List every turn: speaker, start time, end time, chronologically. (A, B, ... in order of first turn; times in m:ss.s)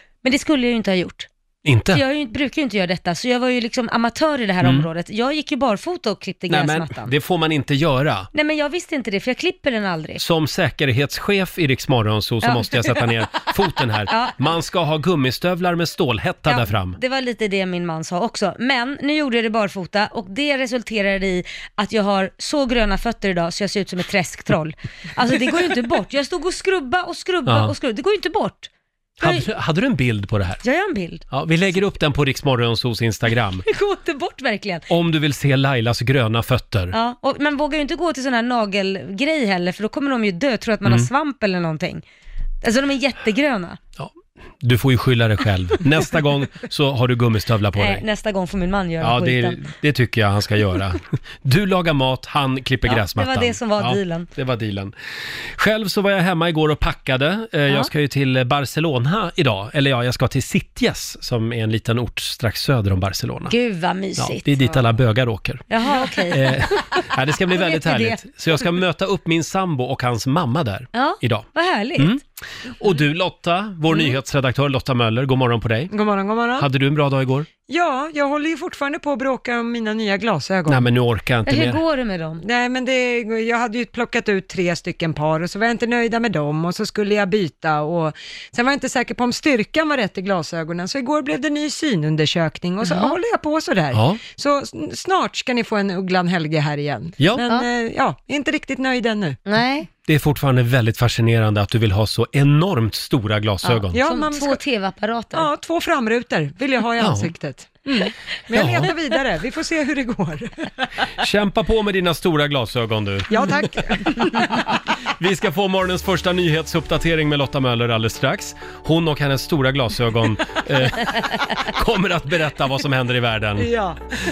0:00.2-0:01.3 A
0:01.6-0:02.0 B
0:01.9-0:07.1 A
0:04.6-0:04.9 B
0:06.5-0:08.3 B
0:08.3-0:10.2 A
0:10.2-0:17.0 B
0:12.4-0:13.0 A
0:14.1-0:14.4 A
0:16.5-0:28.7 A
0:27.5-0:27.7 B
0:29.2-0:29.5 A
0:29.2-0:30.6 B
0:30.6-0:31.2 A
0:31.3-0:33.6 B
0:33.6-0:34.9 A
0:34.9-0:37.0 B
0:36.9-0:42.0 A
0:40.8-0:41.1 B
0:42.6-0:43.8 A
0:44.0-0:48.0 B
0:47.8-0:49.6 A
0:49.0-0:54.9 B
0:52.9-0:54.3 A
0:55.5-1:03.5 B
1:03.5-1:04.8 A
1:04.2-1:05.7 B
1:05.7-1:08.2 A
1:06.3-1:15.9 B
1:11.0-1:12.2 A
1:13.9-1:14.2 A
1:15.9-1:16.6 C
1:16.6-1:17.5 B
1:17.7-1:20.8 C
1:20.7-1:21.8 B
1:21.5-1:22.4 A
1:22.6-1:39.3 C
1:32.8-1:33.2 A
1:33.9-1:34.2 B
1:37.2-1:37.5 B
1:37.4-1:37.7 A
1:39.5-1:39.9 A
1:40.1-1:44.0 B
1:43.6-1:45.5 A
1:45.4-1:47.8 C
1:47.0-1:47.3 B
1:48.5-1:48.9 B
1:48.5-1:50.4 C
1:48.6-1:49.0 A
1:51.2-2:03.8 B
2:03.7-2:04.0 C